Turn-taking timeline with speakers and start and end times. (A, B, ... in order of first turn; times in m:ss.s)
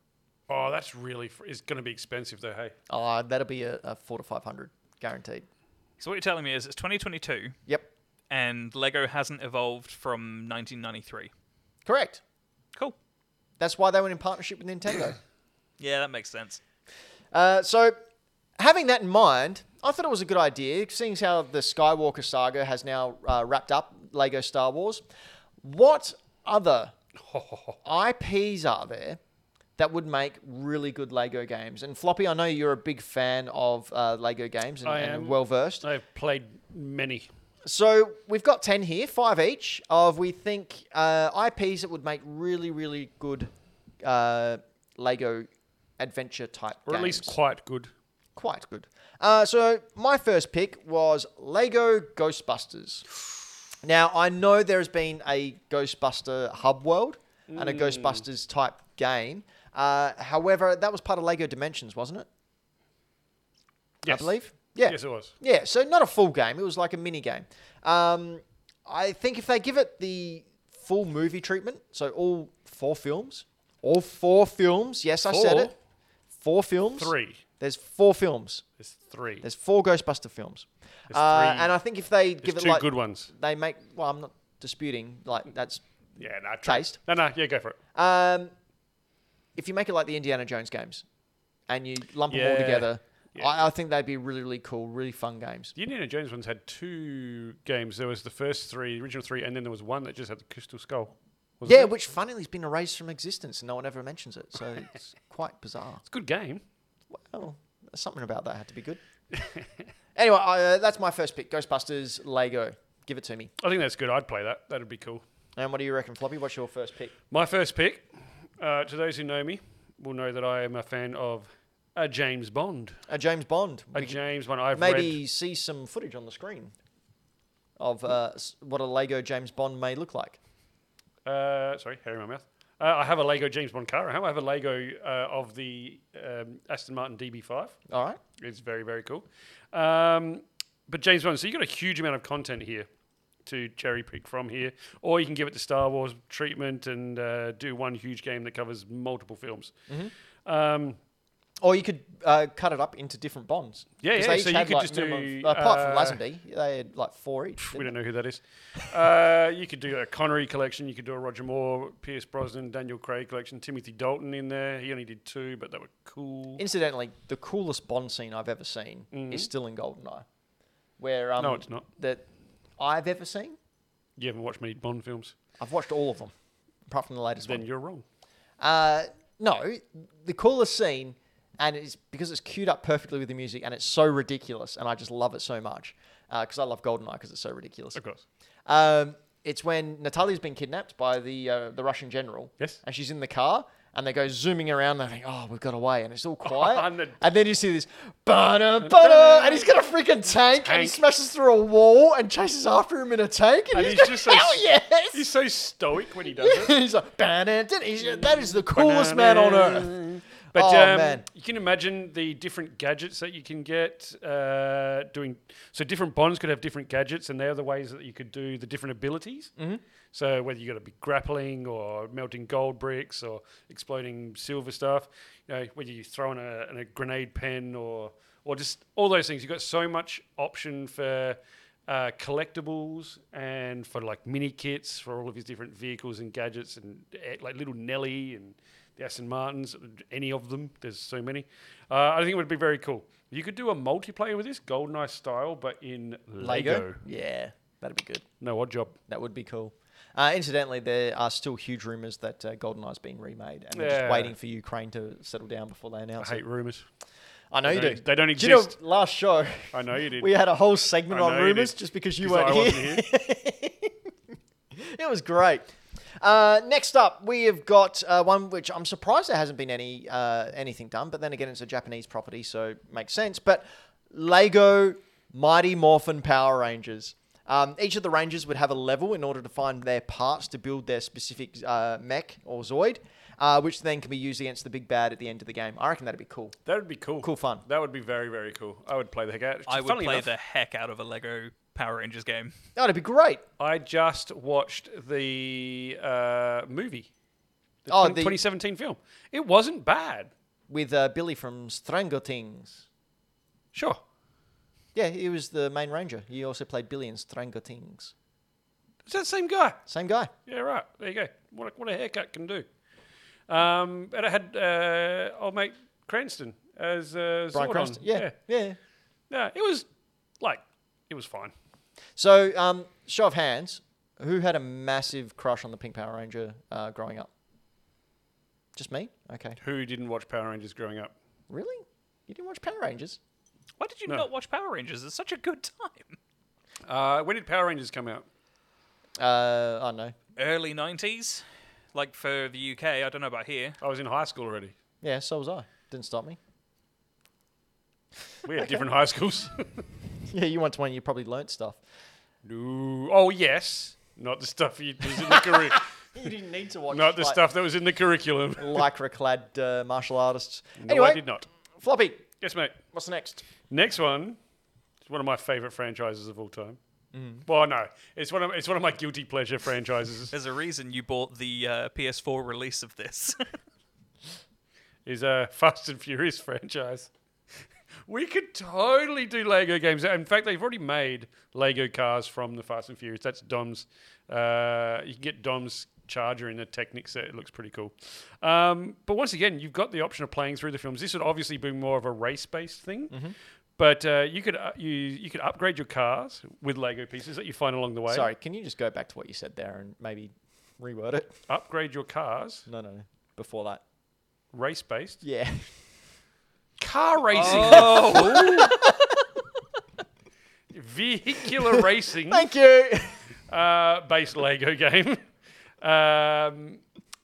0:00.5-0:02.7 A
0:02.9-0:05.4 B
0:06.0-0:07.6 C
0:08.3-0:11.3 C
0:11.8-0:12.2 B
0:13.6-0:15.2 B
0:15.8-0:16.6 C
0:17.3-0:17.9 B
0:18.6-0:25.0 B
0:25.6-0:26.9 B
0:27.2-0:27.8 A
0:27.8-0:29.2 B
0:29.8-0:35.9 B
0:34.8-0:37.3 A
0:37.6-0:43.5 B
0:44.0-0:45.5 B
0:46.0-0:47.3 B
0:46.9-0:47.9 A
0:48.4-0:53.0 B
0:53.8-1:02.3 B
0:57.5-0:58.2 A
1:04.0-1:05.3 A
1:04.0-1:15.7 B
1:15.2-1:15.7 A
1:16.4-1:18.6 B
1:17.0-1:17.4 A
1:18.8-1:19.4 A
1:19.4-1:25.8 B
1:21.1-1:21.7 A
1:22.4-1:23.3 A
1:26.2-1:27.8 A
1:26.6-1:27.0 B
1:27.9-1:28.5 B
1:29.6-1:31.0 B
1:31.7-1:35.7 B
1:32.3-1:33.6 A
1:35.8-1:41.9 A
1:41.6-1:46.0 B
1:46.1-1:46.6 A
1:47.1-1:49.0 B
1:49.3-1:49.6 A
1:50.2-1:53.5 B
1:53.6-1:55.2 A
1:55.6-1:57.1 B
1:57.3-1:58.1 A
1:58.6-2:03.0 A
2:03.1-2:04.2 B
2:03.9-2:05.2 A
2:04.7-2:06.7 B
2:07.8-2:10.4 B
2:11.2-2:17.8 A
2:17.9-2:18.2 B
2:18.4-2:22.9 A
2:23.4-2:29.7 A
2:30.4-2:31.0 A
2:31.6-2:37.9 B
2:34.0-2:36.2 A
2:37.6-2:46.6 A
2:46.6-2:50.2 B
2:49.1-2:49.5 A
2:51.0-2:52.2 B
2:51.4-2:51.9 A
2:52.8-2:53.6 B
2:54.2-2:55.3 A
2:55.6-2:56.3 B
2:56.9-2:57.6 B
2:57.4-2:58.0 A
2:58.6-3:08.0 B
3:08.0-3:08.2 A
3:08.7-3:25.2 B
3:16.4-3:17.2 A
3:18.8-3:19.7 A
3:20.6-3:21.0 A
3:23.7-3:26.8 A
3:26.3-3:30.0 B
3:28.6-3:39.5 A
3:30.5-3:31.2 B
3:40.1-4:07.0 A
4:06.4-4:08.2 B
4:08.4-4:09.0 A
4:09.1-4:16.4 B
4:13.7-4:14.3 A
4:16.2-4:16.8 A
4:17.5-4:24.1 B
4:17.6-4:18.8 A
4:19.7-4:20.3 A
4:21.1-4:23.1 A
4:24.7-4:46.6 B
4:46.6-4:50.3 A
4:47.2-4:47.6 B
4:49.7-4:52.5 C
4:52.8-4:53.4 B
4:53.6-4:57.1 A
4:57.8-5:00.3 A
4:57.9-4:58.4 B
5:00.7-5:02.8 B
5:03.7-5:04.0 A
5:04.9-5:08.1 B
5:09.1-5:09.8 A
5:09.9-5:10.3 B
5:10.4-5:12.6 A
5:13.5-5:18.3 A
5:17.5-5:18.8 B
5:19.3-5:19.9 A
5:20.4-5:21.5 A
5:22.2-5:27.3 B
5:28.8-5:29.6 B
5:29.6-5:31.1 A
5:31.5-5:33.2 B
5:33.8-5:36.2 C
5:36.9-5:38.2 A
5:39.2-5:40.1 B
5:40.4-5:43.8 C
5:43.8-5:44.7 A
5:45.0-5:46.4 B
5:48.4-5:49.8 A
5:48.6-5:48.8 B
5:50.3-5:51.8 B
5:52.4-5:55.9 A
5:55.1-5:57.4 B
5:56.9-5:58.8 A
5:58.6-6:01.2 B
6:00.8-6:01.5 A
6:01.8-6:02.3 B
6:02.4-6:02.8 A
6:02.9-6:03.4 B
6:03.7-6:04.4 A
6:05.0-6:06.8 A
6:07.1-6:07.4 B
6:07.4-6:10.3 A
6:10.3-6:13.4 C
6:15.0-6:17.1 A
6:18.1-6:33.2 A
6:33.8-6:38.3 A
6:38.1-6:41.3 B
6:41.5-6:42.7 A
6:42.7-6:43.8 B
6:44.5-6:45.2 A
6:45.2-6:45.7 B
6:46.8-6:48.7 A
6:47.3-6:49.3 B
6:47.4-6:48.4 C
6:50.7-6:52.5 A
6:51.5-6:53.2 B
6:53.5-6:55.2 A
6:55.8-6:56.8 A